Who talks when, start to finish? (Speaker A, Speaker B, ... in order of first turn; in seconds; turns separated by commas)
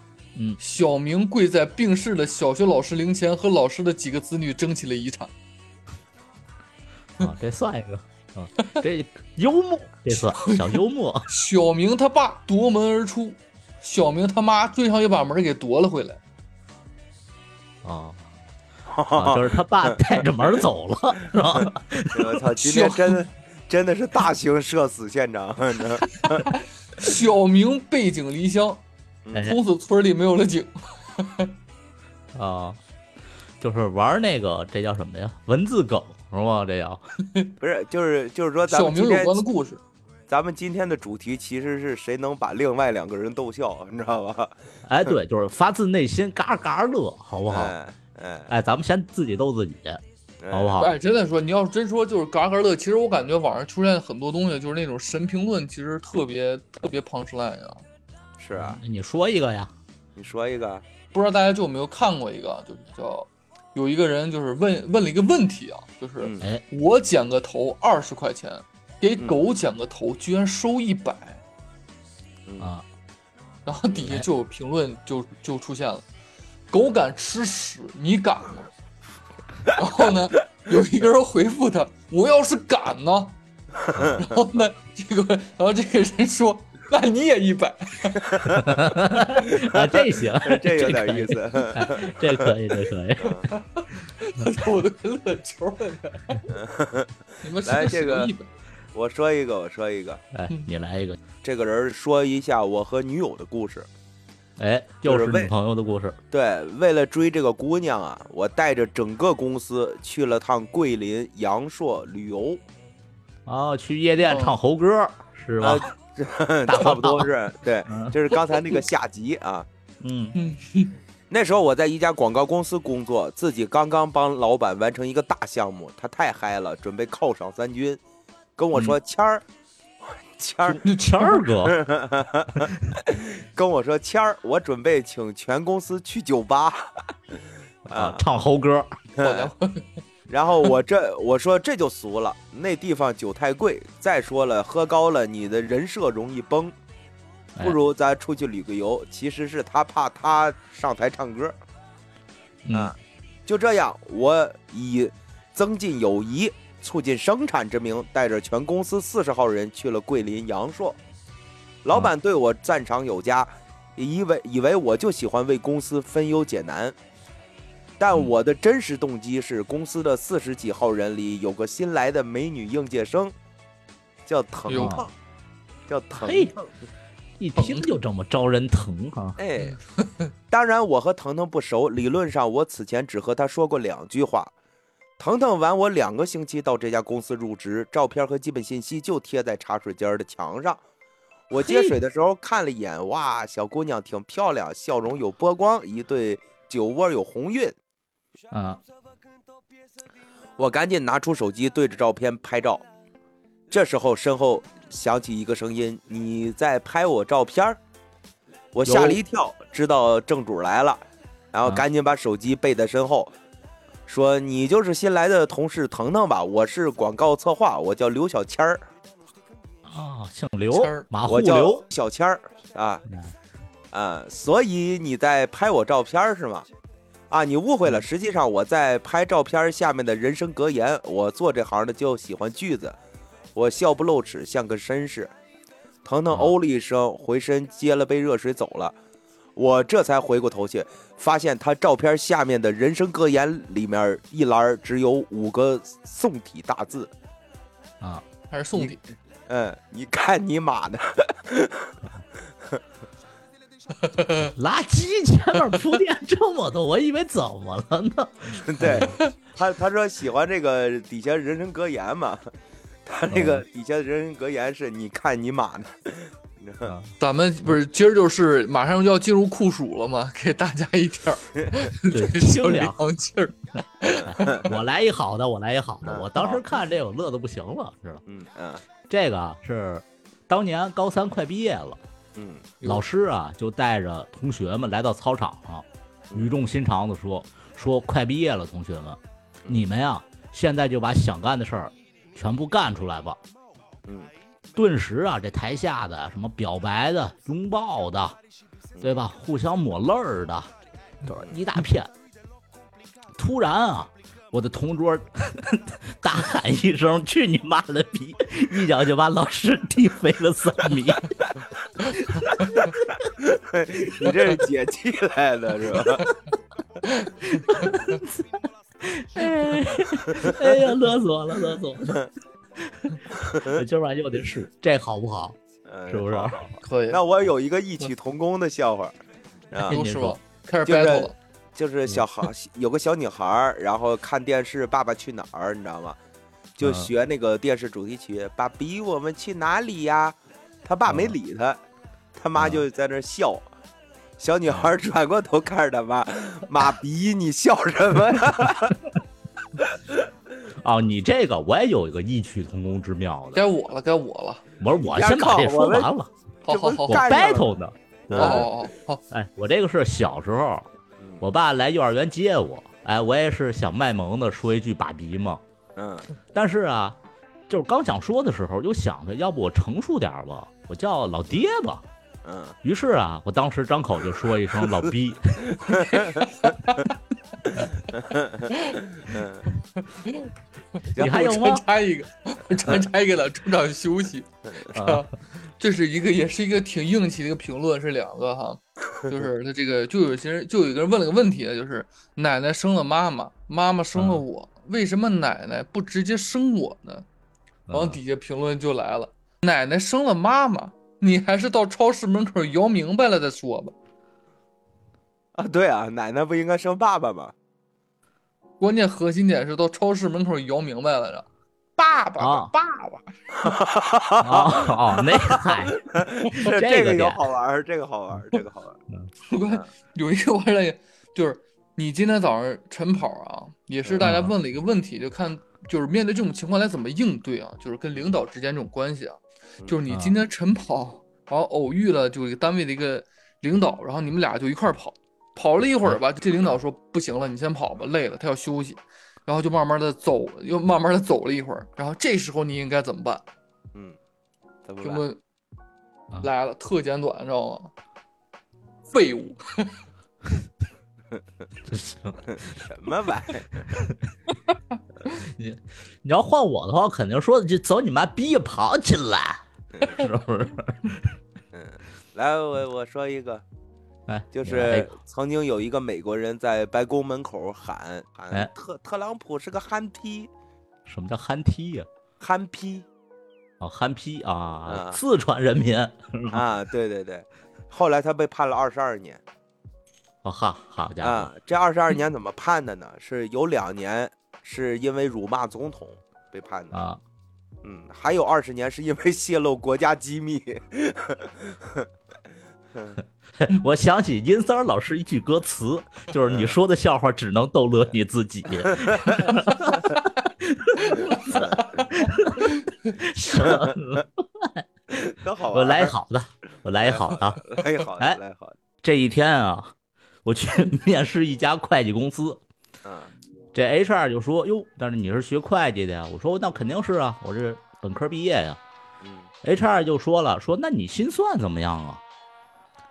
Speaker A: 0.6-5.3, Speaker B: 7.2-11.3, Speaker A: 10.2-16.2, Speaker B: 17.8-18.2, Speaker C: 18.9-20.0, Speaker B: 19.1-22.4, Speaker C: 21.6-26.5, Speaker A: 22.6-23.2, Speaker A: 26.1-28.8, Speaker C: 29.2-29.6, Speaker A: 29.4-31.5, Speaker B: 32.4-32.8, Speaker B: 33.6-37.0, Speaker C: 37.6-39.4, Speaker A: 38.7-39.8, Speaker C: 40.3-44.5, Speaker B: 44.9-47.8, Speaker C: 47.5-48.5, Speaker B: 48.5-50.9, Speaker C: 50.4-50.9, Speaker A: 50.8-57.8, Speaker C: 58.4-58.8, Speaker B: 58.5-59.7, Speaker C: 60.2-60.8, Speaker A: 61.1-71.4, Speaker C: 66.2-66.5, Speaker C: 72.5-72.7, Speaker B: 72.6-72.8, Speaker A: 73.7-76.0, Speaker A: 76.7-78.7, Speaker A: 79.7-83.4, Speaker C: 83.8-84.2, Speaker A: 84.1-88.6, Speaker B: 88.5-93.5, Speaker C: 89.5-92.5, Speaker C: 93.2-93.5, Speaker A: 93.5-96.5, Speaker C: 96.5-97.1, Speaker A: 97.4-98.5, Speaker C: 97.6-98.3, Speaker C: 99.0-100.2, Speaker B: 100.3-101.2, Speaker C: 101.4-103.9, Speaker B: 104.6-106.2, Speaker C: 105.0-105.5, Speaker C: 106.3-112.6, Speaker B: 113.5-115.9, Speaker A: 114.2-114.6, Speaker C: 115.6-119.7, Speaker B: 116.7-117.3, Speaker B: 117.9-118.2, Speaker B: 120.0-120.4, Speaker A: 120.3-120.9, Speaker C: 121.3-128.0, Speaker C: 128.6-129.4, Speaker C: 130.1-130.8, Speaker B: 130.7-131.8, Speaker A: 130.8-131.4, Speaker C: 131.6-137.0, Speaker C: 137.9-138.2, Speaker B: 137.9-138.9, Speaker C: 139.2-139.5, Speaker A: 139.2-139.9, Speaker C: 140.3-146.8, Speaker C: 147.6-151.5, Speaker B: 152.7-152.9, Speaker C: 153.5-161.0, Speaker C: 161.8-166.9, Speaker C: 168.0-173.3, Speaker C: 174.3-175.1, Speaker A: 174.7-175.0, Speaker B: 174.7-175.0, Speaker C: 175.9-176.7, Speaker B: 176.2-176.6, Speaker B: 177.4-179.4, Speaker A: 177.6-177.9, Speaker C: 179.4-179.8, Speaker A: 179.6-180.3, Speaker C: 180.5-184.5, Speaker C: 185.2-190.8, Speaker C: 191.5-197.8, Speaker B: 191.6-192.0, Speaker B: 198.5-198.8, Speaker C: 200.6-202.8, Speaker C: 203.7-207.8, Speaker C: 208.8-211.0, Speaker B: 208.8-209.2, Speaker C: 211.5-213.3, Speaker C: 214.1-218.8, Speaker B: 219.9-221.8, Speaker A: 220.7-221.1, Speaker C: 221.3-223.0, Speaker B: 223.1-223.3, Speaker C: 223.9-226.7, Speaker C: 227.3-233.0, Speaker C: 233.6-235.3, Speaker C: 236.1-238.9, Speaker C: 239.6-247.1, Speaker A: 248.5-249.0, Speaker C: 249.5-251.9, Speaker A: 254.0-254.5, Speaker B: 254.6-259.2, Speaker C: 258.6-262.5, Speaker A: 259.0-259.3, Speaker C: 263.1-266.9, Speaker B: 263.3-263.6, Speaker B: 266.9-267.1, Speaker A: 267.2-274.7, Speaker B: 272.1-273.0, Speaker C: 274.3-274.6, Speaker B: 274.3-278.2, Speaker C: 276.1-276.6, Speaker C: 278.3-278.8, Speaker B: 279.1-282.0, Speaker C: 282.4-282.8, Speaker B: 282.8-293.4, Speaker C: 286.3-286.6, Speaker B: 294.8-298.4, Speaker C: 299.0-299.2, Speaker B: 299.0-300.7, Speaker B: 301.2-302.1, Speaker B: 303.4-311.4, Speaker B: 312.1-312.4, Speaker A: 312.6-312.9, Speaker C: 313.4-316.3, Speaker A: 317.0-318.1, Speaker B: 317.5-322.2, Speaker B: 322.8-325.6, Speaker C: 323.4-323.8, Speaker C: 325.9-329.1, Speaker B: 326.1-326.6, Speaker A: 326.8-327.2, Speaker C: 329.7-330.0, Speaker B: 329.8-330.4, Speaker A: 329.9-331.4, Speaker C: 330.9-336.2, Speaker C: 336.8-341.8, Speaker B: 336.8-337.1, Speaker B: 341.1-341.4, Speaker C: 342.4-343.6, Speaker B: 342.6-342.8, Speaker C: 344.4-349.0, Speaker B: 350.8-353.6, Speaker A: 353.5-354.6, Speaker B: 354.8-356.3, Speaker C: 355.0-356.1, Speaker A: 356.7-357.3, Speaker C: 356.7-357.8, Speaker B: 357.1-358.7, Speaker C: 358.3-358.7, Speaker A: 358.3-359.2, Speaker B: 359.3-360.9, Speaker B: 361.4-365.6, Speaker C: 366.0-366.3, Speaker B: 366.5-367.2, Speaker B: 367.7-372.0, Speaker C: 372.4-372.8, Speaker B: 372.8-376.0, Speaker C: 375.7-376.4, Speaker A: 375.9-377.1, Speaker C: 378.1-379.7, Speaker A: 378.7-379.0, Speaker A: 380.0-380.5, Speaker C: 381.2-381.6, Speaker A: 381.2-397.2, Speaker B: 381.2-381.8, Speaker B: 384.9-385.2, Speaker B: 394.1-394.4, Speaker B: 397.9-398.2, Speaker A: 397.9-403.9, Speaker C: 405.6-407.5, Speaker A: 408.8-411.5, Speaker A: 412.0-413.3, Speaker B: 412.4-412.7, Speaker C: 413.6-419.0, Speaker B: 414.4-417.4, Speaker A: 419.5-443.4, Speaker B: 424.2-424.5, Speaker B: 430.1-430.4, Speaker C: 444.9-445.2, Speaker A: 445.0-445.4, Speaker A: 446.4-447.9, Speaker A: 449.1-450.0, Speaker B: 451.9-452.8, Speaker C: 452.5-453.9, Speaker B: 453.9-454.3, Speaker B: 455.3-461.4, Speaker C: 461.7-463.6, Speaker B: 464.3-465.1, Speaker C: 464.5-470.5, Speaker B: 471.1-472.1, Speaker C: 472.4-473.1, Speaker B: 473.8-476.7, Speaker C: 474.9-475.2, Speaker C: 476.5-479.4, Speaker B: 480.4-481.5, Speaker C: 481.2-487.0, Speaker B: 486.9-487.2, Speaker C: 487.8-492.1, Speaker C: 492.9-493.2, Speaker B: 493.6-508.4, Speaker C: 496.5-496.8, Speaker C: 498.8-499.4, Speaker A: 501.0-503.1, Speaker C: 501.1-502.0, Speaker C: 503.6-503.9, Speaker C: 505.2-506.1, Speaker C: 507.0-508.8, Speaker B: 509.0-509.9, Speaker B: 510.4-512.6, Speaker C: 513.0-513.3, Speaker B: 513.7-518.8, Speaker C: 519.2-519.5, Speaker B: 519.6-522.2